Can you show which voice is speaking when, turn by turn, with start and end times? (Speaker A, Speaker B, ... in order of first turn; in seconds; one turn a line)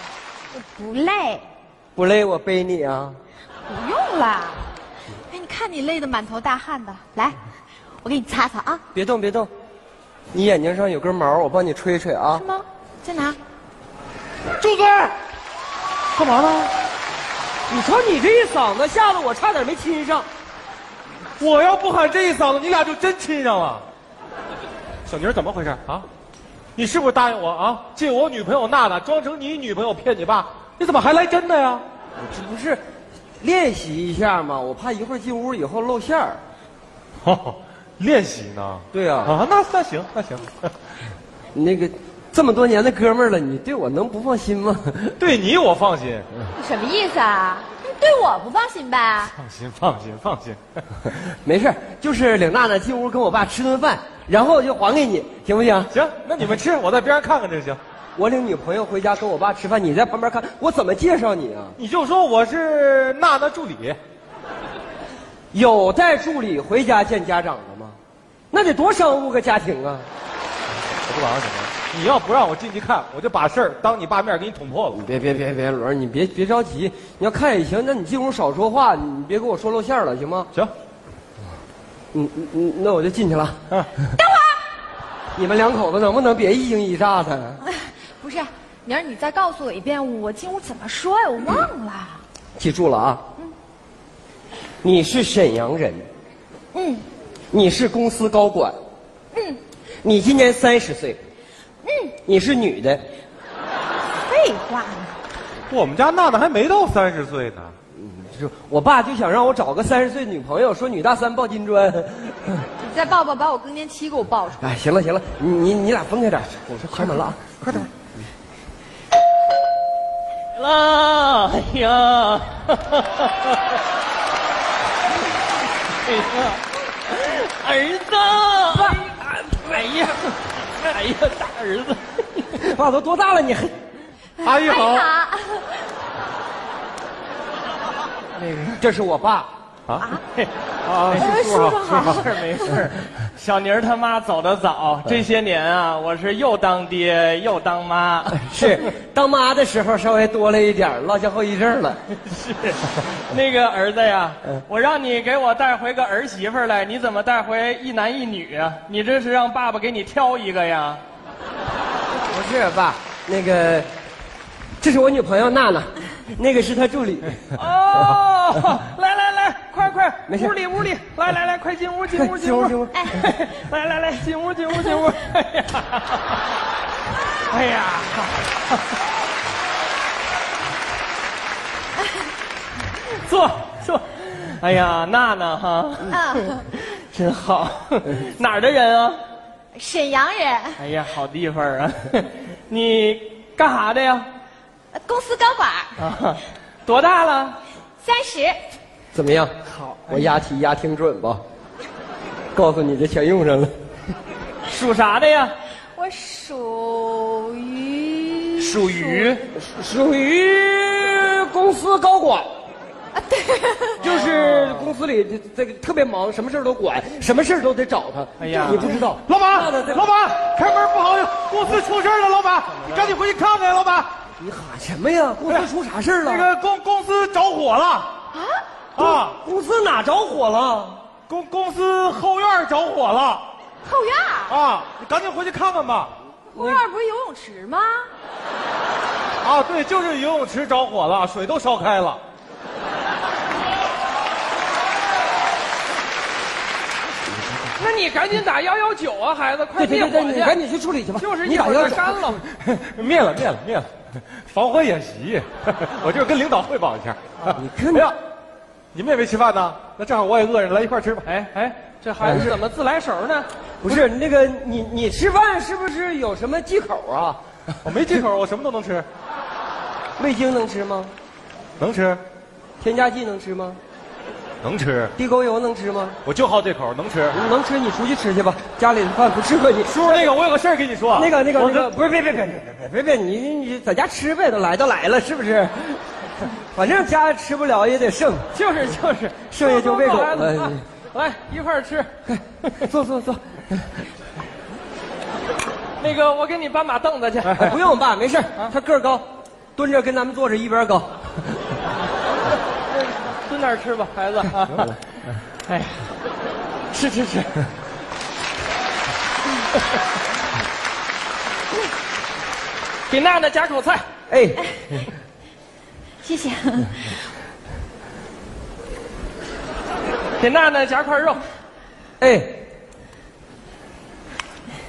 Speaker A: 0.5-1.5
Speaker B: 1.9-3.2
Speaker A: 3.7-4.7
Speaker A: 5.3-7.4
Speaker A: 8.0-8.8
Speaker B: 8.9-9.5
Speaker B: 10.3-12.5
Speaker A: 12.3-13.4
Speaker C: 14.6-15.2
Speaker C: 16.1-16.7
Speaker B: 17.7-20.3
Speaker C: 21.4-23.8
Speaker C: 25.1-26.1
Speaker C: 26.8-31.8
Speaker B: 32.2-32.8
Speaker B: 33.4-36.4
Speaker C: 37.2-40.7
Speaker B: 38.9-39.4
Speaker B: 41.5-45.2
Speaker C: 45.2-46.3
Speaker A: 46.5-49.3
Speaker C: 49.2-51.1
Speaker B: 51.2-55.9
Speaker C: 55.9-57.8
Speaker B: 58.2-61.8
Speaker C: 61.8-64.0
Speaker B: 65.5-68.0
Speaker B: 68.5-70.1
Speaker C: 70.9-75.0
Speaker B: 74.9-80.5
Speaker B: 82.1-83.6
Speaker A: 84.2-84.6
Speaker B: 85.3-87.6
Speaker A: 87.7-92.2
Speaker B: 92.6-93.2
Speaker B: 94.8-96.1
Speaker A: 96.7-97.0
Speaker B: 97.5-98.8
Speaker A: 99.3-99.6
Speaker B: 100.0-101.2
Speaker A: 101.8-102.2
Speaker B: 102.2-103.0
Speaker A: 104.2-105.1
Speaker C: 105.7-107.7
Speaker B: 107.9-112.7
Speaker A: 112.8-114.7
Speaker B: 114.6-117.5
Speaker C: 117.0-117.9
Speaker D: 120.5-123.8
Speaker D: 125.9-132.6
Speaker B: 132.6-133.8
Speaker A: 134.4-135.8
Speaker C: 134.4-135.2
Speaker D: 138.4-138.8
Speaker B: 138.8-139.5
Speaker C: 139.9-140.2
Speaker C: 140.8-142.3
Speaker D: 141.1-148.7
Speaker A: 141.2-142.8
Speaker B: 148.3-152.0
Speaker D: 152.1-161.0
Speaker B: 162.3-163.9
Speaker B: 164.8-168.1
Speaker D: 167.5-176.4
Speaker B: 170.3-170.6
Speaker B: 172.1-173.2
Speaker D: 177.5-178.8
Speaker D: 183.0-189.2
Speaker A: 186.1-186.6
Speaker A: 189.8-190.8
Speaker D: 190.8-194.3
Speaker A: 194.9-196.0
Speaker D: 196.0-197.6
Speaker A: 198.0-198.6
Speaker B: 199.1-201.4
Speaker B: 202.5-203.7
Speaker D: 204.7-205.6
Speaker A: 205.9-209.4
Speaker D: 208.6-209.5
Speaker B: 209.5-212.5
Speaker A: 213.2-214.0
Speaker D: 214.0-215.0
Speaker B: 214.0-220.1
Speaker D: 218.4-219.0
Speaker C: 218.6-224.1
Speaker D: 222.8-223.1
Speaker B: 224.4-226.5
Speaker C: 226.2-228.1
Speaker A: 228.3-228.6
Speaker C: 228.9-229.4
Speaker B: 229.0-231.0
Speaker C: 231.3-233.5
Speaker A: 233.8-234.6
Speaker C: 234.5-236.1
Speaker A: 236.6-238.1
Speaker B: 236.6-236.9
Speaker C: 239.4-242.2
Speaker B: 247.3-247.7
Speaker D: 247.8-250.6
Speaker B: 249.8-252.4
Speaker D: 251.2-252.4
Speaker C: 252.5-258.2
Speaker B: 257.5-258.1
Speaker C: 258.9-261.3
Speaker D: 261.2-263.5
Speaker B: 262.2-262.5
Speaker B: 263.8-267.4
Speaker C: 267.8-269.1
Speaker B: 270.2-271.1
Speaker C: 271.8-272.2
Speaker B: 272.8-273.8
Speaker C: 274.6-275.1
Speaker B: 275.1-276.2
Speaker C: 276.2-277.4
Speaker B: 277.3-280.3
Speaker C: 279.9-281.9
Speaker B: 281.1-286.0
Speaker B: 286.7-288.5
Speaker D: 288.5-292.1
Speaker B: 289.5-290.8
Speaker B: 292.2-293.4
Speaker D: 296.0-297.8
Speaker B: 297.5-301.5
Speaker D: 302.9-304.9
Speaker D: 305.6-306.1
Speaker D: 306.9-307.6
Speaker D: 313.1-314.0
Speaker B: 314.3-315.1
Speaker A: 316.2-317.1
Speaker D: 320.4-321.4
Speaker B: 322.2-322.6